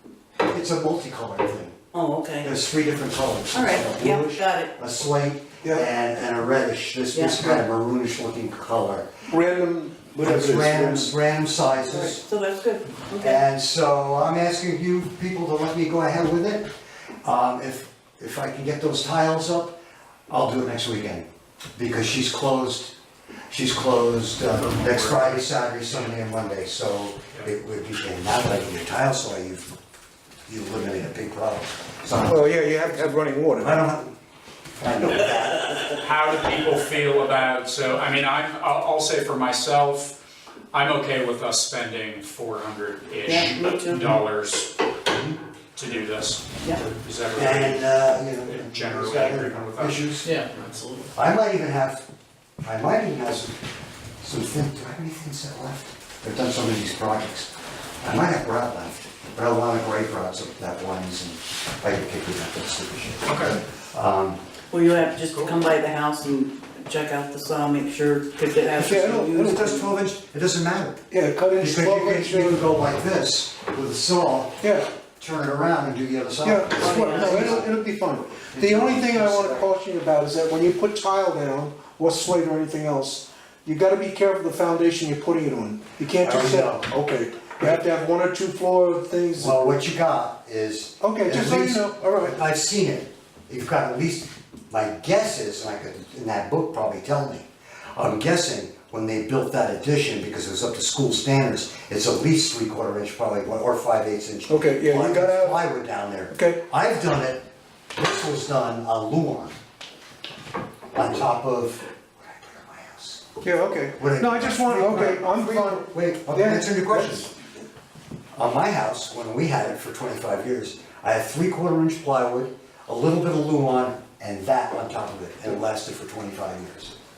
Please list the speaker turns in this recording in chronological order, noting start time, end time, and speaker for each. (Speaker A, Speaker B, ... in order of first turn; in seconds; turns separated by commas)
Speaker A: 0.4-1.8, Speaker B: 1.9-2.5, Speaker A: 2.4-9.1, Speaker B: 3.5-4.7, Speaker B: 7.1-7.6, Speaker C: 9.3-11.1, Speaker A: 10.2-12.2, Speaker B: 11.9-13.4, Speaker A: 13.2-16.7, Speaker A: 17.2-19.8, Speaker A: 20.3-22.9, Speaker A: 23.5-29.7, Speaker D: 24.5-26.1, Speaker A: 30.5-34.1, Speaker C: 32.2-33.8, Speaker A: 34.8-35.8, Speaker D: 35.9-40.1, Speaker D: 40.7-44.7, Speaker B: 43.2-44.1, Speaker A: 45.1-45.4, Speaker D: 45.8-50.9, Speaker A: 47.3-50.3, Speaker A: 51.1-52.0, Speaker A: 52.6-53.6, Speaker A: 54.2-64.4, Speaker D: 63.2-63.6, Speaker B: 64.7-69.8, Speaker D: 65.2-65.6, Speaker C: 68.8-69.8, Speaker A: 69.4-71.0, Speaker C: 71.1-72.6, Speaker A: 71.6-74.6, Speaker C: 74.6-74.9, Speaker A: 75.2-77.7, Speaker C: 76.4-89.8, Speaker B: 76.8-77.5, Speaker A: 78.5-79.7, Speaker A: 86.2-86.9, Speaker A: 89.4-107.4, Speaker C: 91.0-92.4, Speaker C: 104.5-105.6, Speaker C: 106.3-106.6, Speaker A: 108.0-109.5, Speaker A: 110.9-113.2, Speaker C: 113.4-117.3, Speaker A: 114.0-117.3, Speaker A: 118.3-126.9